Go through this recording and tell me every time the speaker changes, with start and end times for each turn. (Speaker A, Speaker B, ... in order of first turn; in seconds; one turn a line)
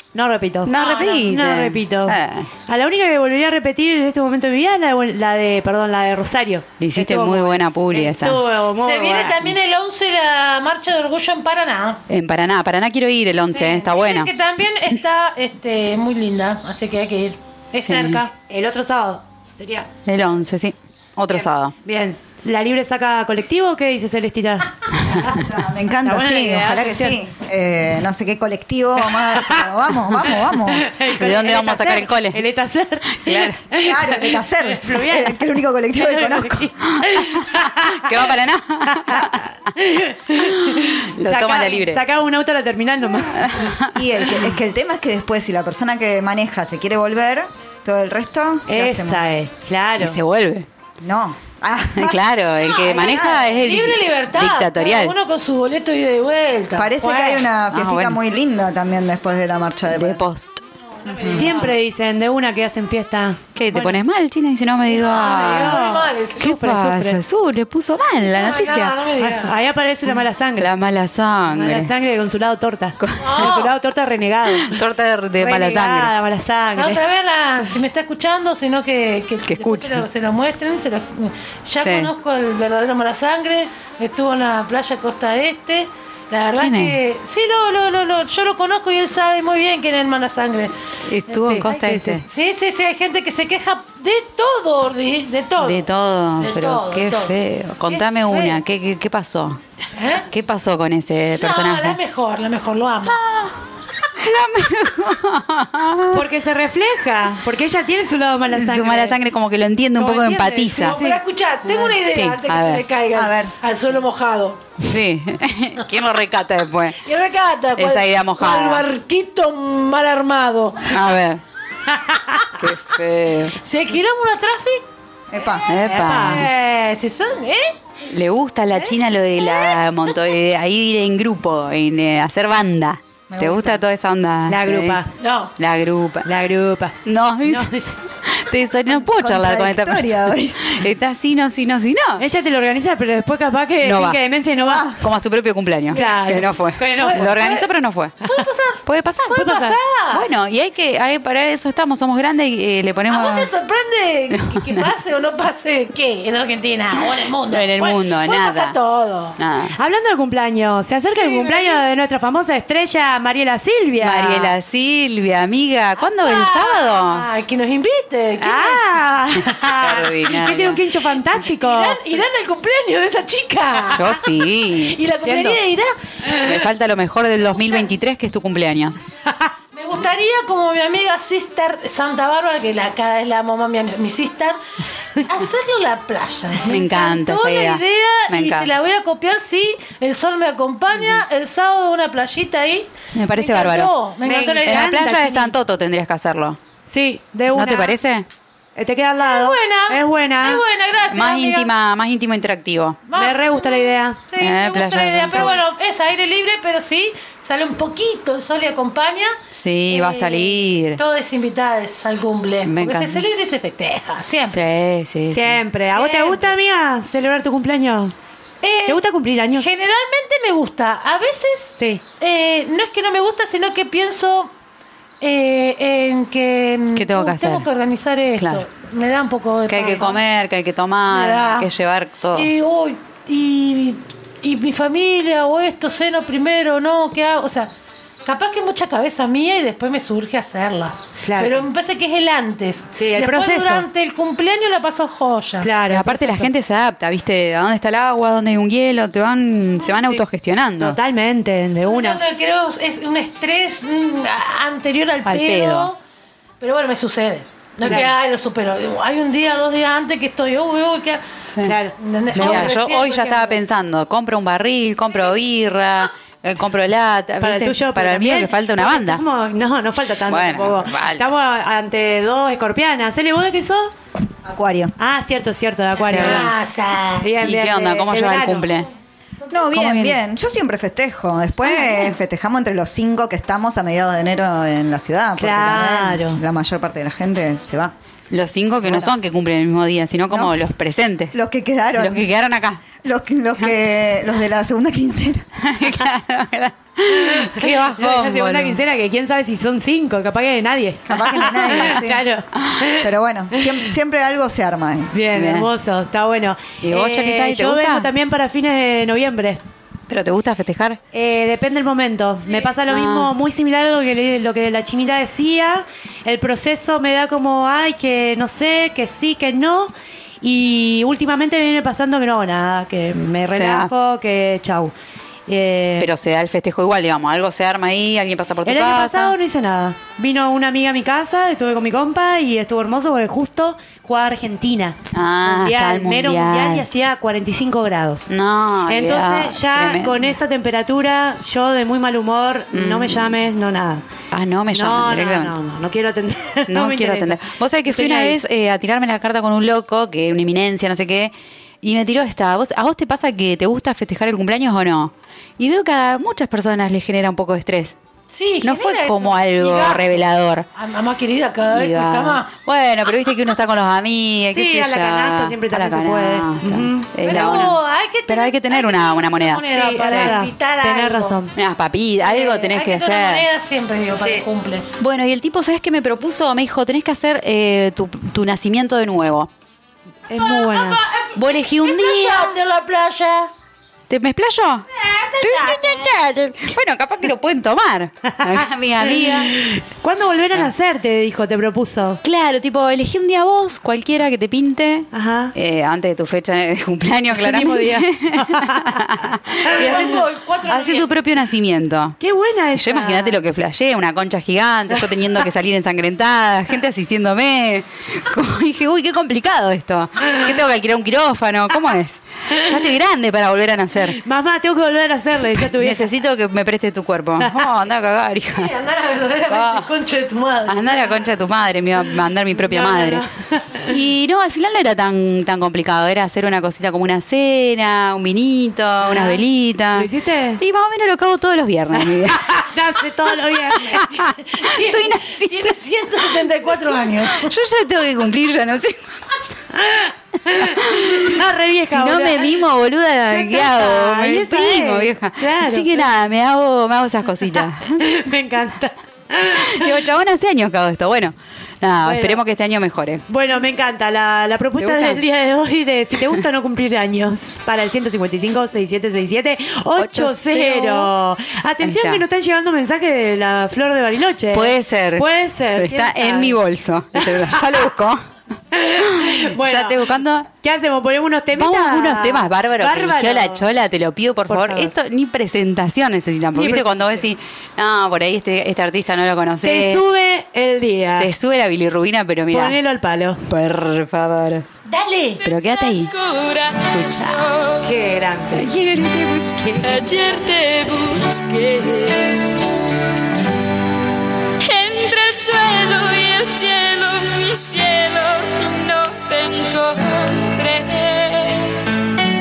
Speaker A: 0.1-9.5
Speaker B: 0.6-2.5
Speaker C: 0.7-1.3
Speaker B: 6.8-8.4
Speaker C: 8.8-12.0
Speaker B: 12.1-14.3
Speaker C: 13.5-18.3
Speaker B: 17.8-18.2
Speaker A: 18.5-19.9
Speaker B: 20.1-21.7
Speaker A: 21.3-27.2
Speaker B: 24.9-25.3
Speaker D: 25.2-30.9
Speaker A: 29.0-43.7
Speaker B: 31.1-32.4
Speaker B: 33.2-33.7
Speaker D: 33.8-36.6
Speaker B: 36.8-39.5
Speaker B: 40.4-42.0
Speaker B: 43.2-44.0
Speaker D: 43.9-49.5
Speaker A: 48.6-50.2
Speaker B: 50.0-50.7
Speaker D: 51.0-53.5
Speaker B: 52.0-55.1
Speaker C: 53.0-57.5
Speaker D: 56.8-60.2
Speaker B: 57.7-58.2
Speaker B: 59.9-60.6
Speaker C: 60.9-61.7
Speaker D: 61.1-61.5
Speaker A: 61.3-64.0
Speaker B: 63.5-65.8
Speaker C: 64.9-66.5
Speaker A: 65.1-67.2
Speaker B: 66.4-69.0
Speaker C: 68.3-69.5
Speaker A: 69.1-70.7
Speaker B: 70.6-71.9
Speaker A: 71.5-74.8
Speaker B: 73.0-73.5
Speaker C: 73.2-73.7
Speaker B: 74.5-76.1
Speaker A: 75.4-77.0
Speaker C: 76.8-90.7
Speaker B: 79.5-80.0
Speaker B: 81.8-82.1
Speaker B: 86.5-87.0
Speaker B: 91.1-92.2
Speaker C: 91.3-95.8
Speaker A: 91.4-92.2
Speaker B: 95.6-99.6
Speaker C: 96.4-97.3
Speaker C: 97.9-98.6
Speaker C: 99.9-100.3
Speaker B: 100.3-102.0
Speaker C: 101.3-103.2
Speaker B: 103.0-106.2
Speaker A: 106.1-109.2
Speaker B: 108.5-111.0
Speaker A: 109.9-111.2
Speaker C: 110.7-114.6
Speaker B: 111.6-112.9
Speaker D: 113.1-113.5
Speaker B: 114.8-117.0
Speaker C: 117.0-121.0
Speaker B: 117.8-118.9
Speaker B: 120.9-121.4
Speaker A: 122.1-122.4
Speaker B: 122.6-123.5
Speaker C: 123.5-124.9
Speaker D: 125.3-125.7
Speaker B: 125.7-126.5
Speaker A: 125.8-126.5
Speaker C: 126.2-127.8
Speaker B: 128.1-135.0
Speaker C: 129.4-130.1
Speaker D: 133.3-133.8
Speaker A: 134.5-135.1
Speaker C: 135.2-135.5
Speaker B: 135.6-136.3
Speaker A: 136.2-138.0
Speaker B: 137.0-137.7
Speaker B: 138.2-142.2
Speaker D: 138.9-140.7
Speaker A: 142.2-144.9
Speaker B: 143.8-144.2
Speaker D: 144.5-145.0
Speaker B: 145.0-148.1
Speaker A: 145.9-147.5
Speaker C: 145.9-146.3
Speaker C: 146.9-147.7
Speaker C: 148.2-150.3
Speaker B: 148.8-149.5
Speaker A: 149.4-149.8
Speaker B: 150.1-153.5
Speaker C: 153.1-159.4
Speaker B: 154.5-154.9
Speaker B: 157.4-158.8
Speaker B: 159.4-159.8
Speaker A: 159.7-164.6
Speaker C: 161.1-161.8
Speaker B: 164.0-167.3
Speaker C: 166.0-169.7
Speaker A: 168.4-172.0
Speaker B: 169.5-170.8
Speaker C: 171.3-176.5
Speaker B: 173.9-175.0
Speaker A: 175.2-175.6
Speaker B: 176.2-179.0
Speaker C: 179.7-184.6
Speaker C: 185.2-195.0
Speaker B: 186.7-188.7
Speaker B: 193.1-193.9
Speaker A: 194.2-195.5
Speaker B: 194.6-196.6
Speaker A: 196.9-197.9
Speaker B: 197.5-198.3
Speaker A: 198.8-200.6
Speaker C: 199.2-201.7
Speaker B: 201.1-203.0
Speaker C: 203.1-209.3
Speaker A: 203.1-204.2
Speaker B: 204.4-205.6
Speaker B: 209.5-211.0
Speaker C: 209.9-214.6
Speaker B: 212.6-213.2
Speaker B: 214.5-215.6
Speaker A: 215.3-218.1
Speaker C: 215.9-216.6
Speaker C: 218.6-224.5
Speaker A: 218.8-219.7
Speaker C: 225.2-230.2
Speaker B: 226.9-227.7
Speaker B: 228.4-228.6
Speaker B: 229.7-232.5
Speaker C: 231.1-231.7
Speaker C: 232.3-237.7
Speaker C: 238.2-245.7
Speaker A: 241.2-241.6
Speaker A: 242.9-243.8
Speaker A: 245.6-246.5
Speaker B: 245.9-251.0
Speaker A: 249.9-250.2
Speaker A: 250.8-252.2
Speaker C: 251.9-256.0
Speaker B: 255.2-255.9
Speaker C: 256.6-261.2
Speaker A: 257.8-258.1
Speaker B: 257.8-258.1
Speaker B: 261.5-261.8
Speaker A: 261.6-262.8
Speaker C: 262.0-263.6
Speaker B: 262.3-269.2
Speaker A: 267.4-273.9
Speaker B: 270.2-271.3
Speaker D: 274.4-274.9
Speaker A: 275.0-276.5
Speaker B: 276.0-276.5
Speaker C: 276.0-277.3
Speaker A: 277.2-278.7
Speaker B: 277.4-278.9
Speaker D: 279.5-287.9
Speaker B: 279.7-280.2
Speaker A: 285.4-286.4
Speaker B: 288.3-291.3
Speaker D: 288.8-289.1
Speaker D: 290.3-290.6
Speaker D: 291.3-292.2
Speaker B: 291.9-292.8
Speaker D: 293.0-295.5
Speaker B: 295.6-298.9
Speaker A: 297.1-303.8
Speaker D: 301.1-302.2
Speaker B: 302.5-302.9
Speaker D: 302.9-305.1
Speaker A: 305.1-309.6
Speaker B: 305.3-305.7
Speaker B: 306.8-308.1
Speaker B: 310.1-311.0
Speaker A: 311.1-319.9
Speaker B: 312.9-313.3
Speaker A: 320.4-324.9
Speaker B: 323.5-323.9
Speaker A: 325.5-326.1
Speaker B: 326.0-329.4
Speaker A: 328.6-338.3
Speaker B: 335.1-336.9
Speaker B: 338.3-340.3
Speaker A: 338.8-344.0
Speaker B: 342.7-343.3
Speaker B: 344.3-345.5
Speaker A: 344.7-348.4
Speaker B: 346.7-358.0
Speaker C: 358.3-360.2
Speaker B: 358.6-360.6
Speaker C: 360.7-362.5
Speaker B: 361.7-370.4
Speaker A: 364.5-367.7
Speaker C: 367.2-371.4
Speaker A: 369.7-371.5
Speaker B: 371.6-373.4
Speaker C: 372.2-374.9
Speaker A: 374.2-374.4
Speaker B: 375.0-379.5
Speaker A: 380.3-381.0
Speaker C: 380.3-383.5
Speaker B: 381.4-382.5
Speaker B: 384.1-384.9
Speaker C: 385.0-386.1
Speaker B: 385.4-389.5
Speaker A: 388.4-392.2
Speaker B: 392.2-402.2
Speaker A: 395.1-395.5
Speaker A: 397.3-399.3
Speaker C: 399.6-401.1
Speaker A: 402.2-403.4
Speaker B: 402.7-414.2
Speaker A: 412.5-412.9
Speaker A: 414.0-416.1
Speaker B: 415.5-418.7
Speaker A: 417.4-417.7
Speaker C: 418.5-421.3
Speaker B: 419.5-419.9
Speaker B: 420.7-423.2
Speaker A: 422.5-424.0
Speaker B: 423.9-433.0
Speaker A: 429.0-430.6
Speaker A: 431.9-434.0
Speaker C: 433.7-437.5
Speaker B: 433.9-435.8
Speaker B: 437.1-439.4
Speaker A: 439.7-442.6
Speaker B: 440.6-448.0
Speaker A: 443.3-446.1
Speaker A: 447.5-450.0
Speaker B: 449.5-453.2
Speaker A: 452.0-452.4
Speaker A: 453.3-466.6
Speaker B: 454.8-455.2
Speaker B: 460.0-461.1
Speaker B: 461.8-462.2
Speaker B: 464.5-468.2
Speaker A: 467.1-467.6
Speaker A: 468.7-470.1
Speaker B: 469.0-470.5
Speaker A: 470.6-473.6
Speaker B: 471.5-480.0
Speaker A: 474.5-474.9
Speaker A: 476.5-477.3
Speaker A: 479.6-481.3
Speaker B: 481.2-482.8
Speaker A: 482.5-483.4
Speaker B: 483.5-484.6
Speaker C: 484.9-485.4
Speaker B: 485.4-486.1
Speaker E: 485.5-487.8
Speaker B: 486.8-487.6
Speaker A: 487.8-488.7
Speaker B: 488.5-490.2
Speaker E: 489.9-492.6
Speaker E: 494.6-501.9